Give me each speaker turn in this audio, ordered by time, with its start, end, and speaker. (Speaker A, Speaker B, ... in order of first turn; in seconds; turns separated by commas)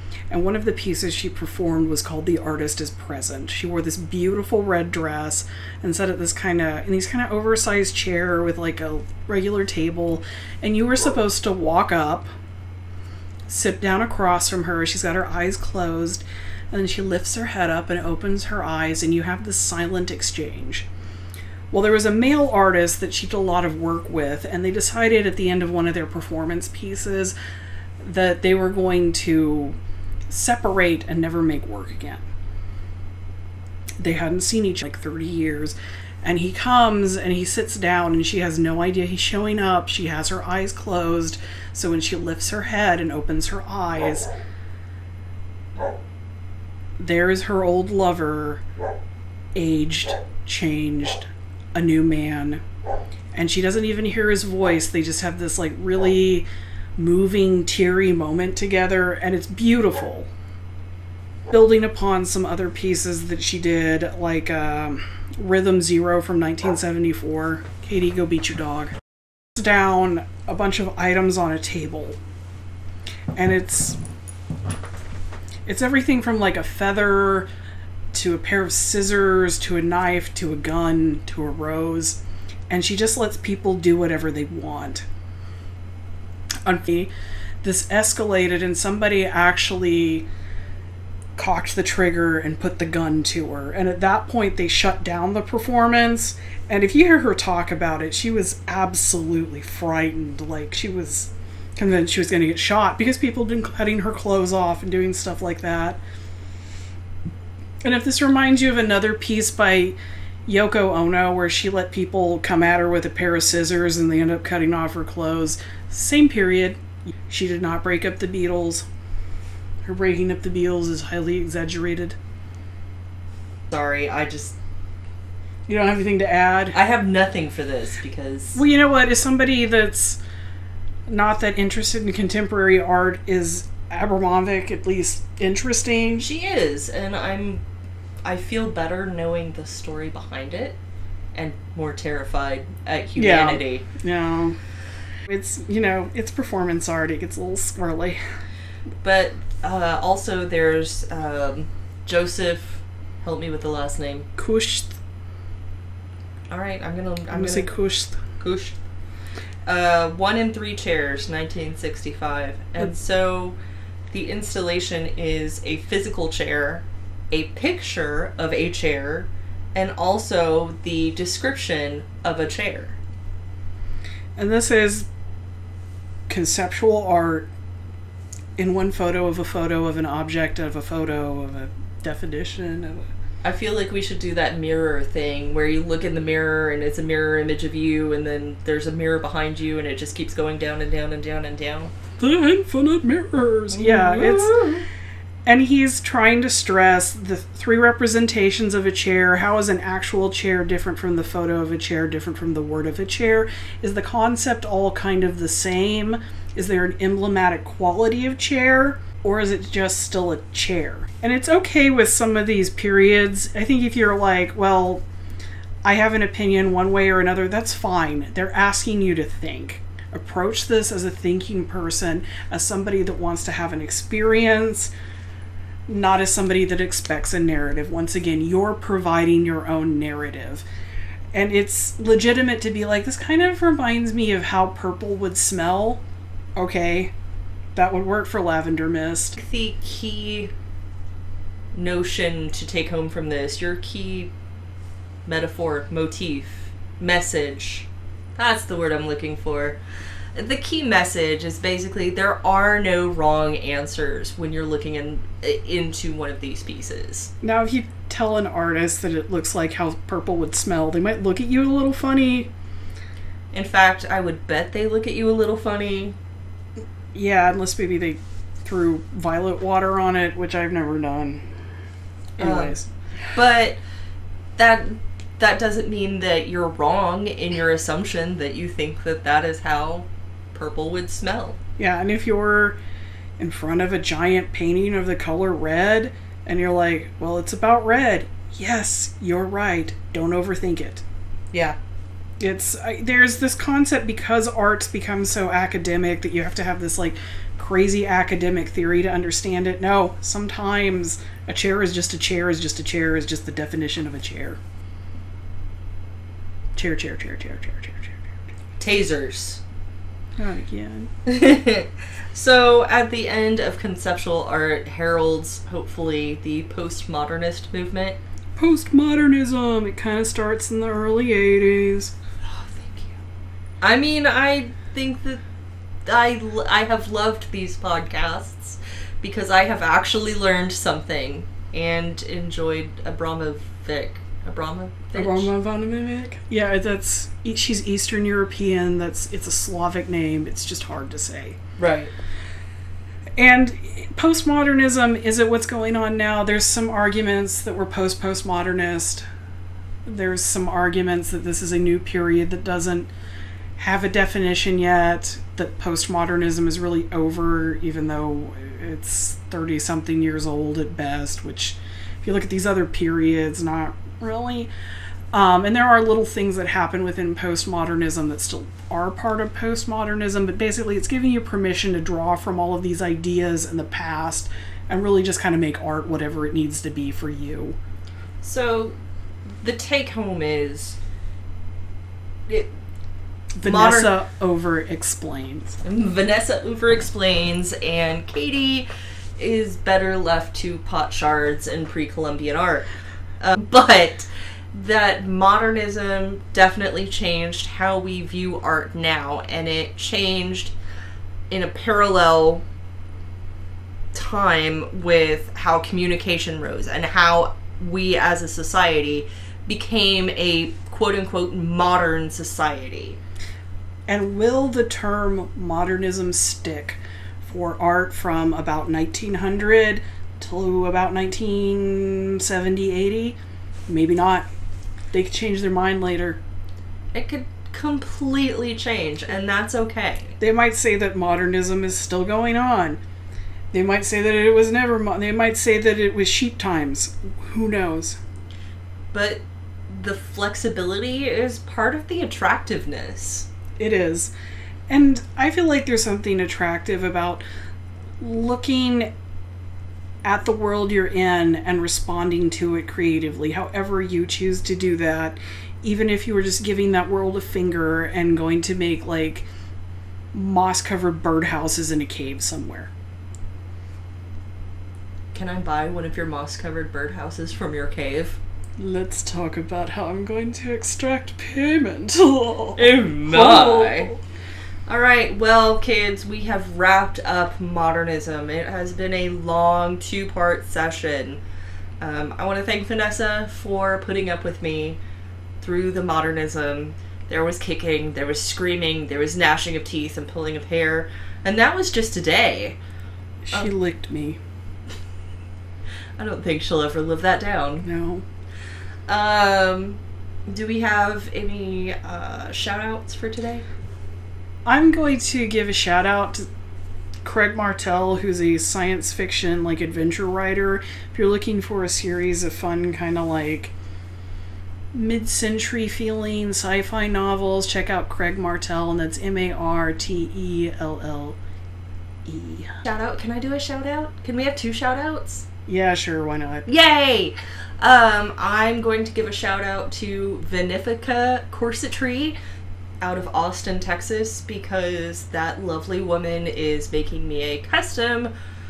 Speaker A: 0.3-12.3, Speaker A: 13.5-20.9, Speaker A: 21.7-27.4, Speaker A: 28.0-29.8, Speaker A: 30.3-32.3, Speaker A: 34.0-44.3, Speaker A: 47.0-48.6, Speaker A: 49.5-52.6, Speaker A: 53.3-60.3, Speaker A: 61.5-69.0, Speaker A: 69.5-72.2, Speaker A: 73.3-74.0, Speaker A: 75.7-77.5, Speaker A: 78.1-85.1, Speaker A: 86.6-87.1, Speaker A: 87.6-90.3, Speaker A: 91.4-106.0, Speaker A: 107.8-118.9, Speaker A: 119.8-122.2, Speaker B: 123.7-124.6, Speaker A: 125.7-126.8, Speaker B: 126.7-128.6, Speaker A: 128.6-130.2, Speaker A: 131.1-136.3, Speaker B: 136.2-137.6, Speaker B: 138.2-140.8, Speaker B: 141.3-143.9, Speaker A: 143.2-144.6, Speaker A: 145.3-148.2, Speaker B: 149.0-154.3, Speaker A: 154.4-155.0, Speaker B: 156.5-157.7, Speaker A: 157.3-158.2, Speaker B: 158.4-158.8, Speaker B: 159.7-163.6, Speaker B: 164.1-173.0, Speaker A: 174.4-175.1, Speaker A: 176.3-177.5, Speaker A: 178.6-183.1, Speaker B: 183.4-191.9, Speaker A: 192.2-194.6, Speaker B: 193.7-194.9, Speaker A: 195.4-215.0, Speaker A: 215.8-224.9, Speaker A: 225.9-230.7, Speaker A: 231.3-236.0, Speaker A: 236.6-237.1, Speaker A: 237.8-239.4, Speaker B: 239.4-240.5, Speaker B: 241.7-244.3, Speaker B: 245.3-249.8, Speaker B: 250.3-257.3, Speaker A: 257.4-262.5, Speaker B: 263.5-266.2, Speaker A: 267.1-271.4, Speaker A: 272.4-272.9, Speaker B: 272.4-272.8, Speaker B: 273.3-273.8, Speaker B: 274.6-281.6, Speaker A: 281.8-282.8, Speaker A: 283.4-291.0, Speaker A: 292.4-304.6, Speaker A: 306.8-308.2, Speaker B: 308.8-309.6, Speaker A: 310.4-311.1, Speaker B: 311.3-318.2, Speaker A: 318.6-322.1, Speaker B: 322.4-323.2, Speaker B: 323.8-325.4, Speaker B: 326.1-335.5, Speaker A: 335.1-341.6, Speaker B: 341.8-342.1, Speaker A: 343.4-349.2, Speaker A: 350.1-353.1, Speaker A: 353.8-364.7, Speaker A: 365.3-377.8, Speaker B: 378.4-379.0, Speaker B: 379.6-381.0, Speaker A: 383.6-385.8, Speaker B: 383.6-384.1, Speaker B: 385.8-392.9, Speaker B: 393.4-400.7, Speaker B: 401.5-402.6, Speaker B: 404.1-413.2, Speaker A: 414.1-424.5, Speaker A: 425.1-426.4, Speaker B: 427.1-430.4, Speaker A: 430.4-433.0, Speaker A: 433.7-438.2, Speaker B: 439.1-443.5, Speaker A: 443.8-444.3, Speaker A: 444.9-447.4, Speaker A: 448.2-449.1, Speaker A: 450.2-459.5, Speaker A: 460.3-462.9, Speaker B: 465.3-468.4, Speaker A: 468.8-474.2, Speaker B: 472.8-474.1, Speaker B: 474.9-481.4, Speaker B: 482.0-485.0, Speaker B: 485.6-492.8, Speaker A: 493.4-494.4, Speaker B: 496.2-497.9, Speaker A: 497.8-498.2, Speaker B: 499.1-503.6, Speaker A: 504.6-506.5, Speaker A: 507.2-513.7, Speaker A: 514.9-521.4, Speaker A: 522.2-522.8, Speaker B: 522.9-525.5, Speaker A: 525.7-526.7, Speaker B: 526.7-532.4, Speaker B: 533.0-538.3